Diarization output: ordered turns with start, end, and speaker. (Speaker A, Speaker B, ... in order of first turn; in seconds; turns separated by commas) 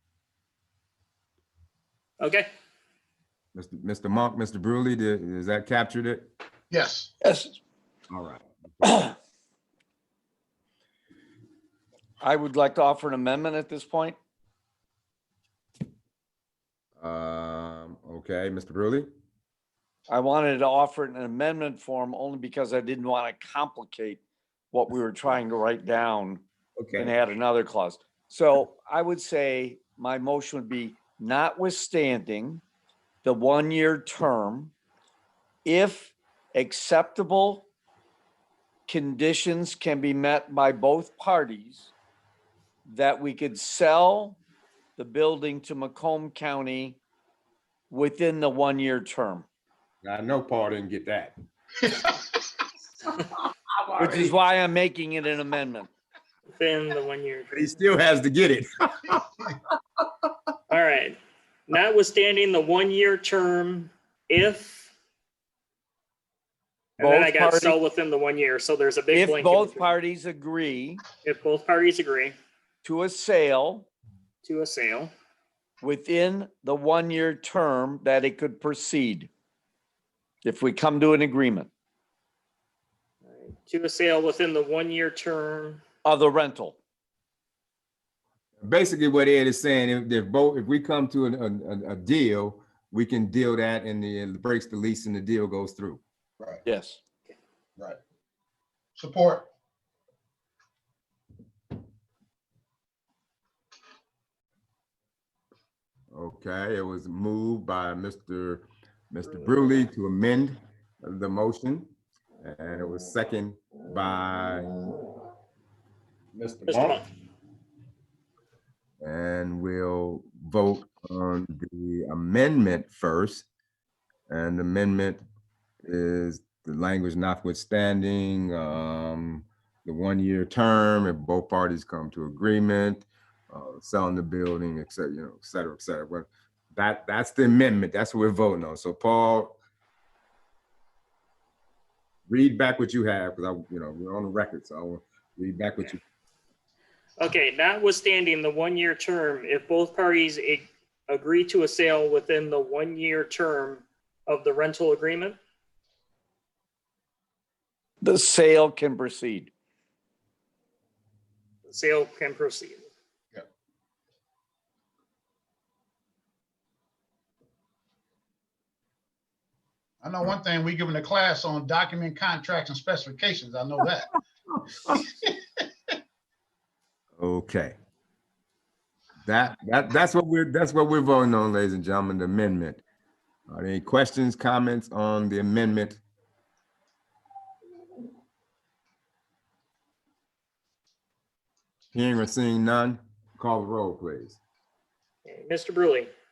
Speaker A: 2.2-2.5, Speaker B: 3.5-6.3, Speaker C: 6.7-7.1, Speaker D: 7.2-7.6, Speaker B: 8.1-9.1, Speaker D: 8.8-9.1, Speaker D: 12.2-14.2, Speaker B: 17.0-19.1, Speaker D: 20.1-24.2, Speaker D: 24.7-26.4, Speaker B: 26.8-27.1, Speaker D: 27.0-32.6, Speaker D: 33.2-34.7, Speaker D: 35.6-37.7, Speaker D: 38.9-41.9, Speaker D: 42.9-44.4, Speaker D: 45.0-47.0, Speaker D: 47.9-49.5, Speaker B: 50.0-51.3, Speaker B: 53.9-54.3, Speaker D: 54.0-55.9, Speaker A: 56.5-57.6, Speaker B: 57.5-59.5, Speaker A: 60.7-61.1, Speaker A: 61.7-64.9, Speaker A: 67.0-70.0, Speaker D: 67.0-67.8, Speaker D: 69.1-71.0, Speaker A: 71.2-72.3, Speaker D: 72.8-73.9, Speaker A: 74.4-75.1, Speaker D: 75.8-79.3, Speaker D: 80.4-81.7, Speaker A: 83.2-85.8, Speaker D: 86.0-86.8, Speaker B: 88.6-96.0, Speaker D: 96.6-97.0, Speaker C: 99.0-99.5, Speaker B: 106.1-111.9, Speaker B: 112.4-114.8, Speaker B: 116.3-117.0, Speaker A: 116.7-117.0, Speaker B: 119.0-123.5, Speaker B: 124.3-125.2, Speaker B: 125.8-139.6, Speaker B: 142.3-146.0, Speaker A: 147.2-155.4, Speaker D: 158.0-159.5, Speaker A: 161.6-162.8, Speaker C: 170.0-174.1, Speaker C: 174.9-175.3, Speaker B: 177.2-177.7, Speaker B: 179.2-182.8, Speaker B: 183.5-186.0, Speaker B: 191.9-194.4, Speaker A: 195.2-196.1